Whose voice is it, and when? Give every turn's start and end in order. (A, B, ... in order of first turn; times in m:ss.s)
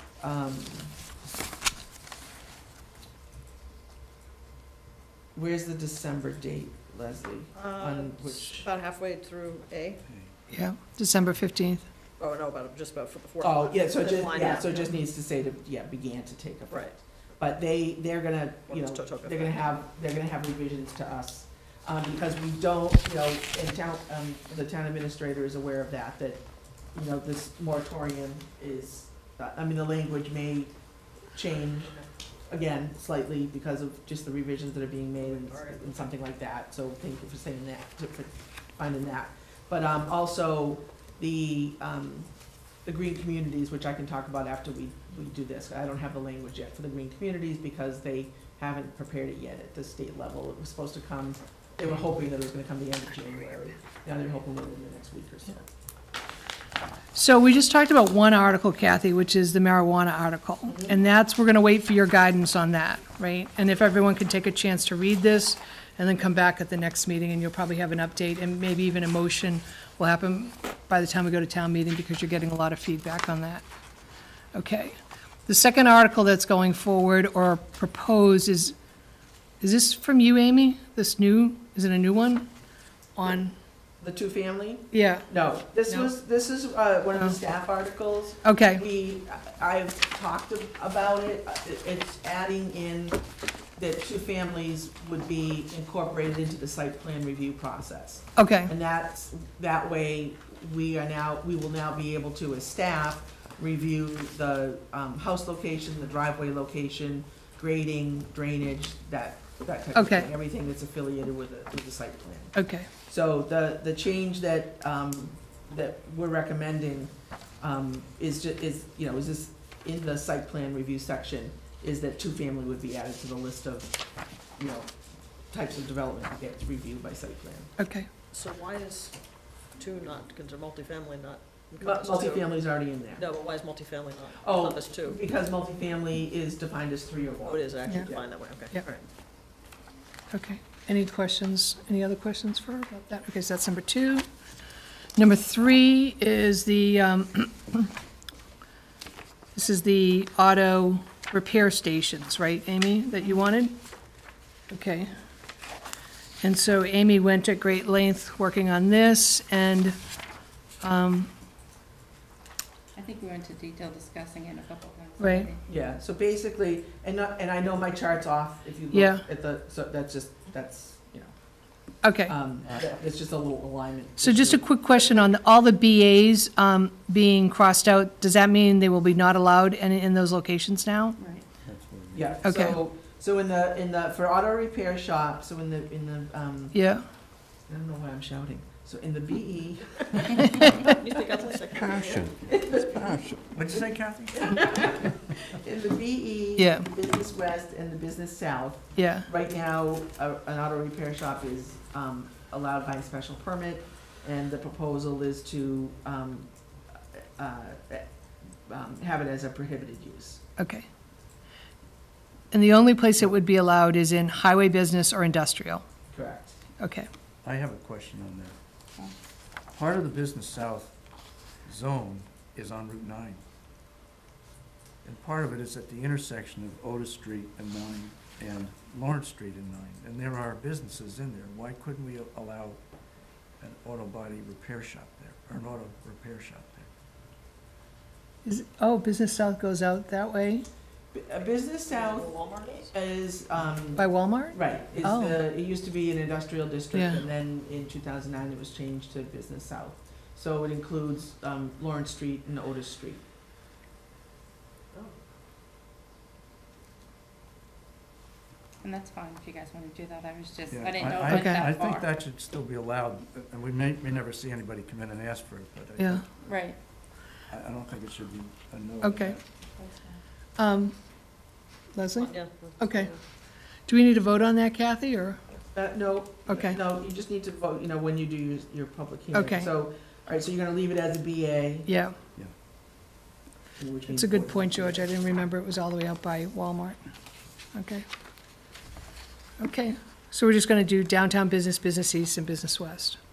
0:00.2-0:01.0 A
0:05.3-0:08.6 A
0:07.5-0:10.0 B
0:10.5-0:11.9 C
0:12.2-0:15.0 B
0:13.4-0:26.4 A
0:16.7-0:17.0 B
0:18.7-0:19.6 B
0:26.9-0:30.7 A
0:31.3-0:42.3 A
0:35.3-0:36.0 B
0:42.8-0:55.7 A
0:57.2-1:13.7 C
1:14.5-1:15.0 C
1:15.5-1:18.8 C
1:19.6-1:22.5 C
1:23.2-1:23.5 C
1:24.0-1:33.2 A
1:24.9-1:25.3 C
1:28.4-1:28.8 C
1:33.8-2:04.0 A
1:38.4-1:38.7 C
1:49.9-1:50.3 C
1:52.6-1:52.9 C
2:04.6-2:04.9 A
2:05.5-2:07.7 A
2:07.8-2:08.1 C
2:08.3-2:09.2 B
2:09.8-2:12.6 B
2:11.8-2:13.3 A
2:13.1-2:15.2 B
2:14.4-2:18.3 A
2:17.4-2:19.0 B
2:20.3-2:24.3 C
2:25.2-2:27.9 C
2:29.6-2:33.8 C
2:34.7-2:35.1 C
2:36.4-2:40.0 C
2:40.8-2:41.3 C
2:43.0-2:45.6 D
2:45.2-2:45.5 C
2:45.7-2:51.3 A
2:48.9-2:49.2 C
2:52.0-2:52.3 C
2:52.2-2:55.3 A
2:54.2-3:01.2 C
3:01.2-3:01.5 D
3:01.6-3:02.5 E
3:02.1-3:06.8 A
3:02.4-3:02.8 C
3:06.7-3:07.0 C
3:07.7-3:10.9 A
3:10.9-3:12.5 B
3:12.0-3:12.2 E
3:12.5-3:13.2 A
3:13.0-3:15.1 E
3:14.3-3:26.5 A
3:16.6-3:16.9 C
3:19.0-3:19.3 C
3:27.1-3:28.1 A
3:28.7-3:30.4 A
3:30.6-3:30.9 C
3:32.5-3:35.8 C
3:36.1-3:36.6 A
3:36.8-3:37.1 C
3:37.4-3:38.6 E
3:39.7-3:41.0 E
3:41.6-3:43.4 E
3:45.0-3:52.8 E
3:53.6-3:56.9 E
3:58.4-4:00.7 C
4:01.1-4:13.2 A
4:01.9-4:02.9 B
4:04.0-4:05.4 C
4:06.9-4:07.2 C
4:18.8-4:22.1 D
4:20.7-4:26.4 E
4:21.3-4:21.7 C
4:26.0-4:26.2 C
4:26.4-4:26.8 D
4:27.5-4:29.4 E
4:29.0-4:29.4 C
4:29.8-4:30.2 D
4:30.6-4:31.0 C
4:31.9-4:33.1 C
4:32.2-4:33.2 B
4:33.9-4:35.4 C
4:35.7-4:41.9 A
4:36.5-4:36.8 C
4:39.3-4:39.7 C
4:41.9-4:42.2 C
4:43.8-4:45.1 A
4:44.1-4:47.0 C
4:47.7-4:48.0 C
4:49.6-4:53.2 C